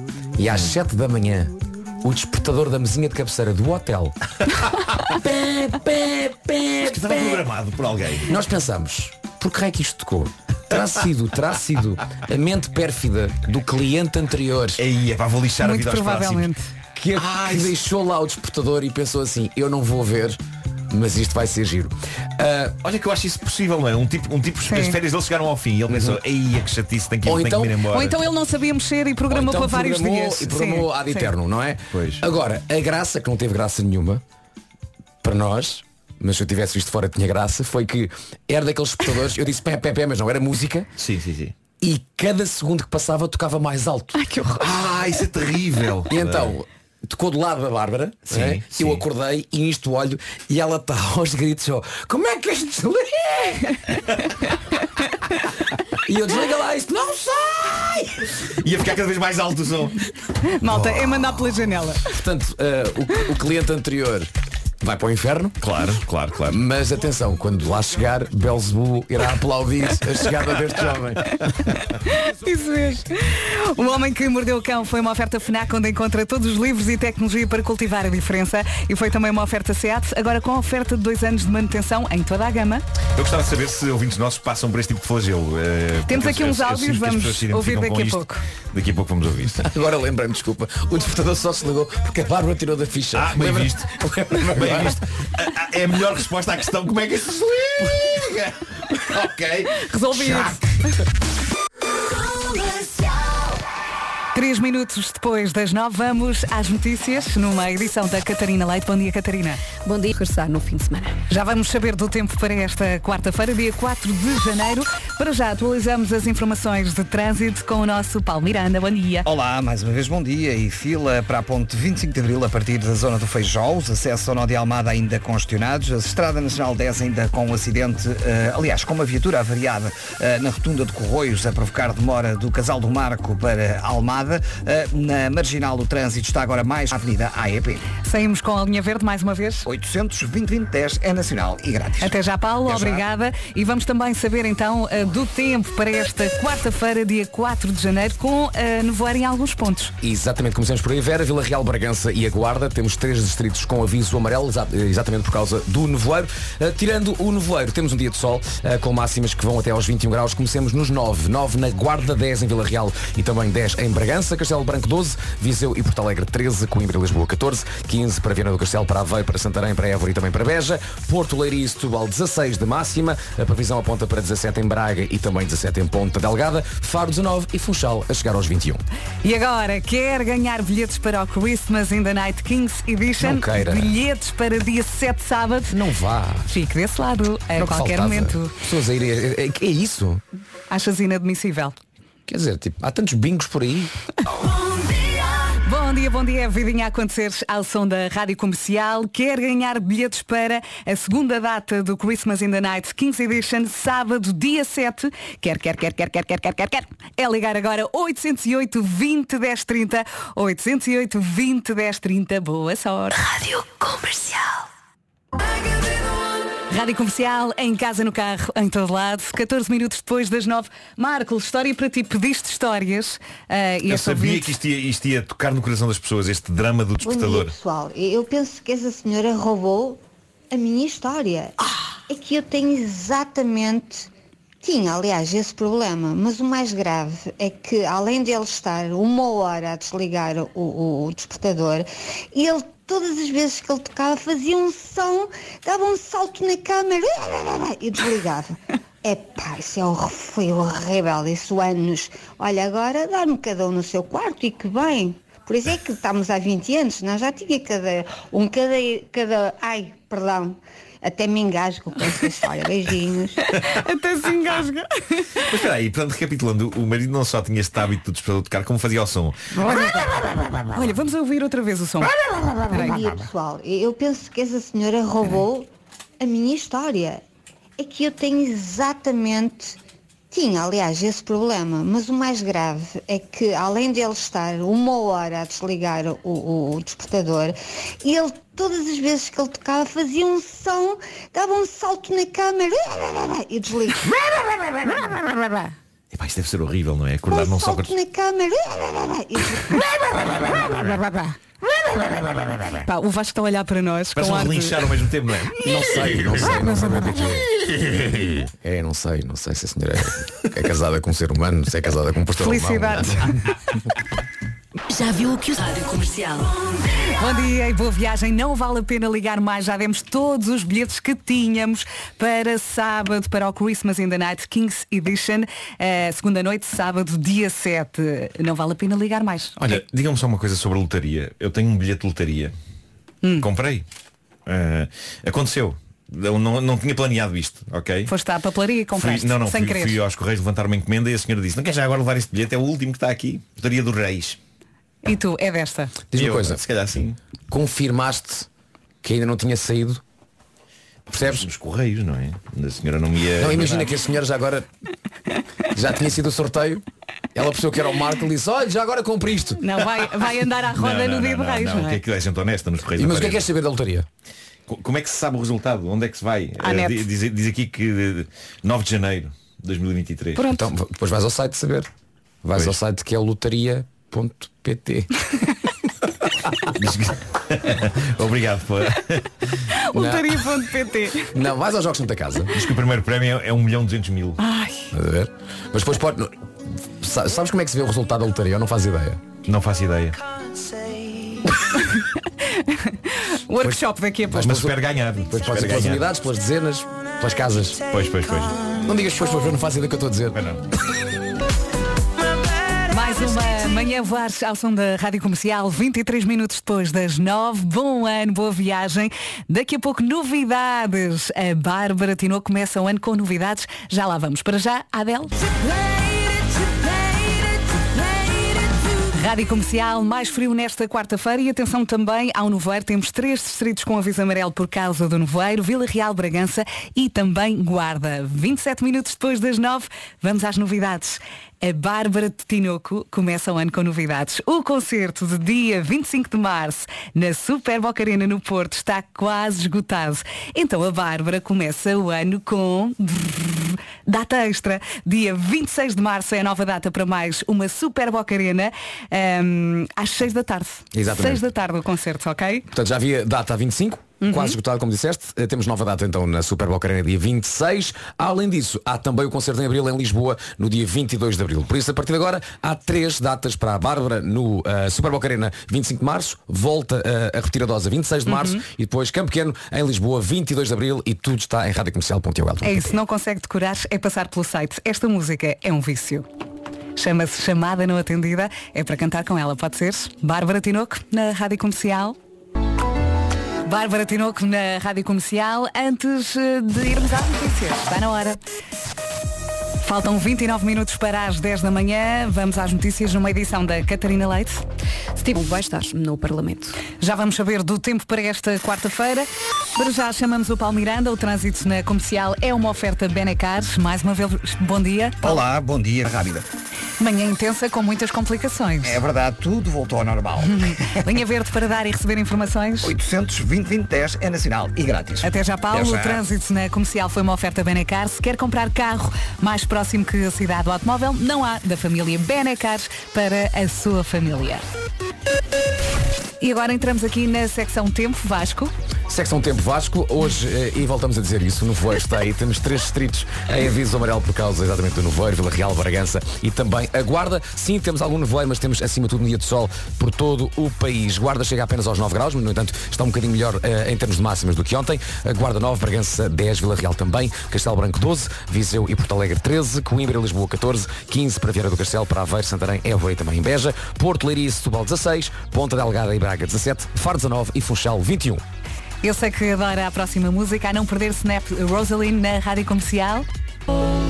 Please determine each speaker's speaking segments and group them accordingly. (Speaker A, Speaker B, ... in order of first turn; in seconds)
Speaker A: 0.4-4.2, 5.0-7.5, 8.3-14.8, 17.0-22.8, 25.9-26.2, 27.2-27.8, 29.3-34.2, 35.2-40.9, 41.8-44.2, 46.1-53.8, 56.0-58.3, 62.1-64.3, 64.8-65.6, 66.5-71.4, 89.6-95.0, 150.0-178.8, 183.2-183.9, 185.7-186.6, 187.6-190.2, 192.3-193.9, 305.6-307.5, 308.5-313.3, 346.1-346.6, 347.5-348.5, 349.0-350.0, 351.1-351.5, 353.4-354.7, 355.7-359.8, 363.0-364.1, 370.5-371.9, 372.4-375.3, 379.9-380.4, 381.2-382.7, 384.9-386.4, 387.0-389.2, 394.3-394.8, 395.3-397.8, 398.8-400.4, 450.9-451.4, 452.7-473.0, 529.1-558.4
Speaker B: 6.8-8.3, 14.8-16.5, 17.1-17.8, 22.8-28.2, 31.9-32.2, 41.0-41.5, 44.6-46.5, 48.3-49.0, 58.6-60.0, 65.6-66.6, 83.2-89.7, 93.1-100.5, 223.9-227.5, 265.5-269.7, 296.1-297.9, 304.1-306.6, 329.6-332.5, 333.4-333.9, 334.5-338.1, 338.9-344.4, 346.1-347.2, 351.1-353.9, 360.8-363.5, 364.7-370.5, 376.6-379.6, 382.5-384.4, 389.5-390.2, 394.3-396.1, 397.9-398.6, 400.3-400.6
Speaker C: 15.6-16.7, 24.7-25.0, 27.9-31.3, 44.2-44.7, 60.6-62.1, 71.8-82.8, 86.1-88.4, 99.8-100.7, 104.3-109.6, 111.3-119.3, 138.0-139.7, 142.0-149.9, 179.2-185.8, 186.5-188.6, 190.7-191.8, 195.6-213.2, 216.7-224.5, 263.5-265.5, 270.7-272.1, 272.7-273.0, 302.9-304.8, 312.4-313.2, 317.1-329.7, 338.1-340.0, 345.1-345.9, 359.6-362.0, 366.6-367.0, 370.4-370.7, 379.7-381.3, 384.4-384.9, 391.8-394.5, 402.9-415.4, 419.1-452.6, 454.2-454.6, 468.2-468.6, 472.6-476.2, 477.0-482.2, 483.6-488.4, 489.8-494.6, 497.0-505.4, 507.0-509.0, 510.5-512.9, 515.2-524.6, 526.4-528.7, 559.0-563.3
Speaker D: 109.8-111.2, 495.2-496.8
Speaker E: 119.3-137.8, 139.7-142.2, 142.7-143.0, 505.2-506.4, 508.8-511.0, 512.8-516.2
Speaker F: 194.7-195.3, 213.1-214.7, 314.9-316.8, 415.9-416.9
Speaker G: 227.0-231.6, 232.1-234.1, 234.6-263.4, 269.6-270.1, 272.7-275.7, 276.2-277.2, 277.8-279.8, 280.3-294.1, 294.8-295.4, 297.3-301.2